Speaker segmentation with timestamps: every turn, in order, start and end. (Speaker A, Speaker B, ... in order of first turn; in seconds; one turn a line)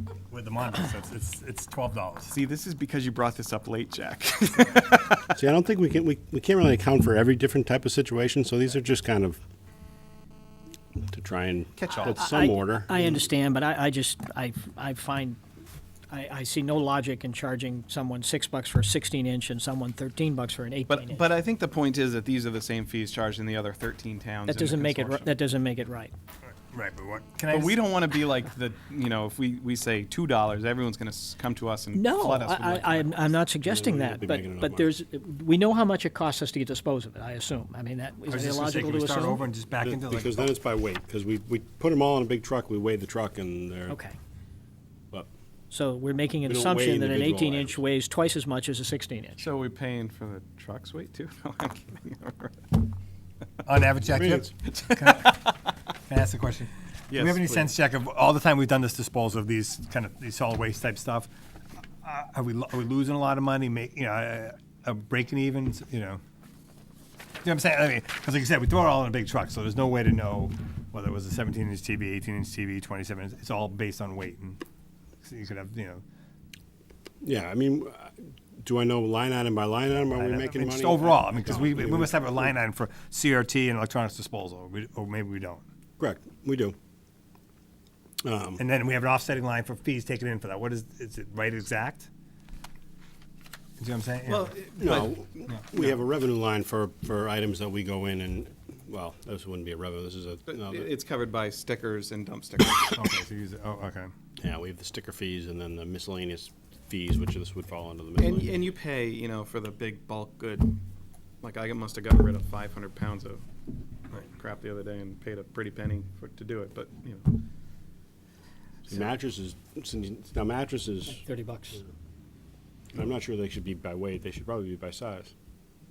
Speaker A: 0.3-2.4
Speaker B: 2.3-5.4
Speaker C: 5.3-9.4
Speaker C: 11.1-13.3
Speaker B: 11.8-12.5
Speaker D: 12.0-15.4
Speaker D: 16.1-21.3
Speaker B: 20.9-25.3
Speaker D: 24.5-26.1
Speaker A: 26.5-27.8
Speaker B: 27.5-33.3
Speaker D: 31.9-39.4
Speaker C: 33.6-35.0
Speaker A: 38.3-40.5
Speaker C: 39.8-44.0
Speaker D: 43.9-44.2
Speaker D: 45.7-49.4
Speaker C: 46.5-47.8
Speaker B: 49.4-52.9
Speaker A: 53.6-55.4
Speaker C: 54.1-54.5
Speaker B: 54.6-55.5
Speaker A: 56.1-61.3
Speaker B: 57.1-57.7
Speaker A: 62.0-66.2
Speaker A: 67.4-74.6
Speaker A: 75.2-76.0
Speaker C: 77.2-82.4
Speaker A: 80.1-85.6
Speaker C: 86.0-86.8
Speaker C: 88.2-88.6
Speaker A: 88.6-92.1
Speaker A: 93.8-96.0
Speaker B: 94.3-95.2
Speaker C: 94.8-100.9
Speaker B: 100.5-103.0
Speaker A: 103.0-104.1
Speaker C: 104.4-108.7
Speaker B: 108.2-110.8
Speaker B: 111.4-113.5
Speaker B: 114.2-117.3
Speaker C: 118.9-121.2
Speaker D: 121.1-121.8
Speaker C: 122.9-125.3